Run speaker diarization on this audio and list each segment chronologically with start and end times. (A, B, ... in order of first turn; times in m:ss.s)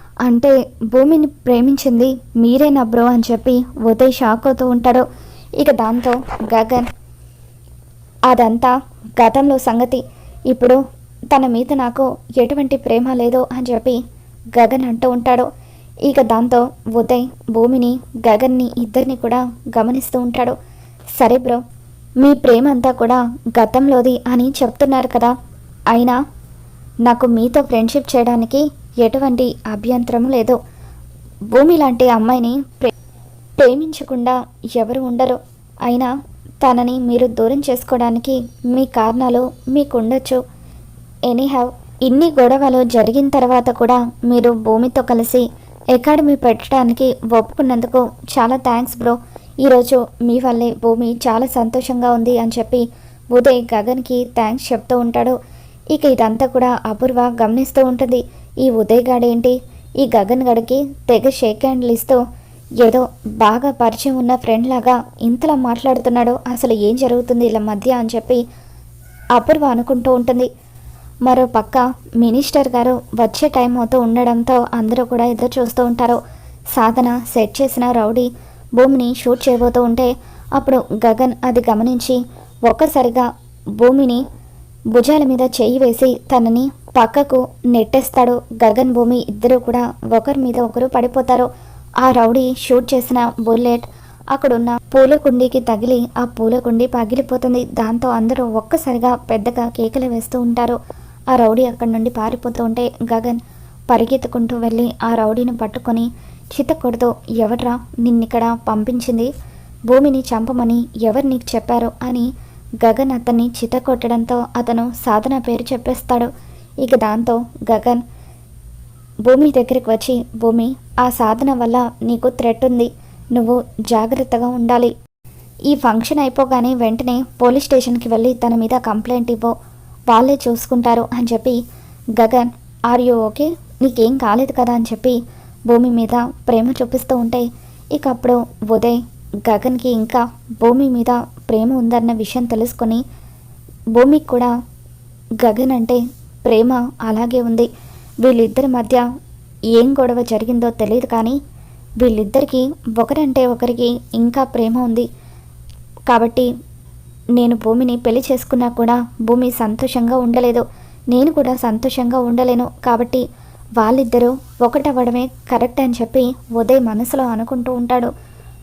0:00.2-0:05.1 A
0:05.6-0:06.9 A
0:08.3-0:14.0 A
0:14.6-0:15.5 A
0:16.1-0:20.6 A
0:21.2-0:21.6 A
0:22.2-0:25.3 A
0:25.9-0:26.2 A
0:27.0-0:30.6 A
0:31.5-0:32.9 A
0:33.6-0:40.4 A
0:41.3-0:55.4 A
0:55.9-1:02.2 A
1:02.8-1:08.4 A
1:09.4-1:10.5 A
1:11.2-1:16.2 A
1:16.7-1:24.2 A
1:24.9-1:31.5 A
1:32.0-1:40.8 A
1:41.3-1:49.3 A
1:49.9-1:52.3 A
1:52.8-1:56.3 A
1:56.8-1:58.0 A
1:59.3-2:04.9 A
2:05.7-2:09.6 A
2:10.1-2:11.6 A
2:12.2-2:23.0 A
2:24.0-2:24.5 A
2:25.4-2:27.7 A
2:28.2-2:29.0 A
2:29.8-2:31.4 A
2:32.0-2:35.1 A
2:36.1-2:36.5 A
2:37.4-2:43.2 A
2:43.8-2:48.1 A